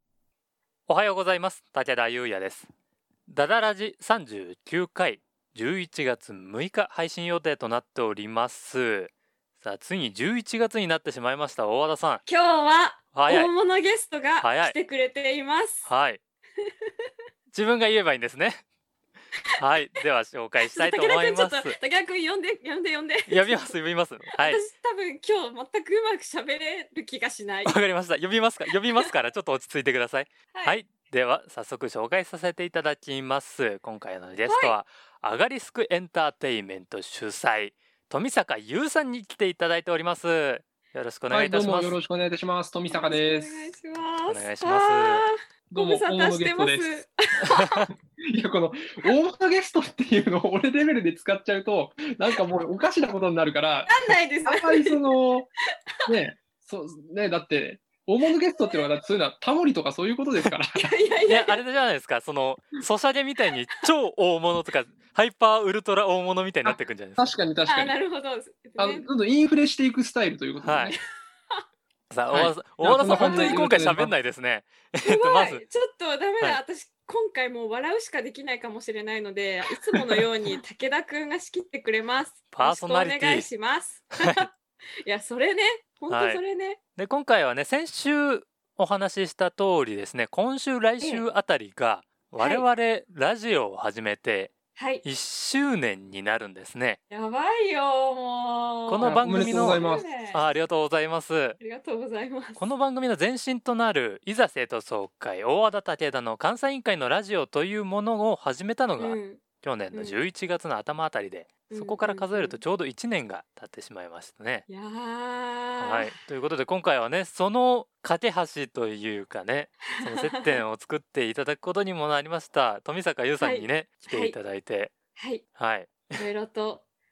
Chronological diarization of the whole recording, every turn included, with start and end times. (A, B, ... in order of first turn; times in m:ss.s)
0:00.9-0:02.7 A
0:03.3-0:12.2 A
0:12.2-0:15.9 B
0:13.1-0:13.5 A
0:14.4-0:14.7 A
0:15.8-0:16.2 A
0:16.6-0:17.1 B
0:17.5-0:18.6 A
0:19.6-0:21.8 A
0:20.6-0:23.7 B
0:23.3-0:24.6 A
0:24.4-0:27.8 B
0:27.6-0:42.0 A
0:30.5-0:30.8 B
0:34.4-0:34.8 B
0:41.3-0:43.7 C
0:42.9-0:47.9 B
0:44.3-0:45.2 A
0:45.7-0:46.9 C
0:47.5-0:47.8 A
0:48.2-0:55.5 C
0:53.9-0:55.0 B
0:56.0-1:00.9 C
0:58.6-0:58.8 B
1:00.8-1:01.6 B
1:01.3-1:07.2 A
1:06.6-1:07.9 C
1:07.6-1:09.1 B
1:08.8-1:11.0 C
1:10.6-1:11.0 A
1:12.1-1:15.6 A
1:12.3-1:14.1 C
1:13.0-1:13.6 B
1:15.0-1:24.5 B
1:22.5-1:23.5 A
1:25.0-1:26.8 B
1:26.1-1:26.4 A
1:27.0-1:37.0 A
1:31.0-1:31.2 B
1:32.4-1:32.6 B
1:34.7-1:35.0 B
1:37.1-1:40.5 B
1:38.9-1:41.6 A
1:39.0-1:40.1 C
1:41.6-1:42.7 B
1:42.6-1:54.6 A
1:49.0-1:50.2 B
1:51.7-1:52.6 B
1:54.7-1:56.1 B
1:55.8-2:04.9 A
1:59.9-2:00.6 B
2:03.4-2:04.4 B
2:05.1-2:05.4 B
2:05.6-2:06.2 A
2:06.1-2:06.8 B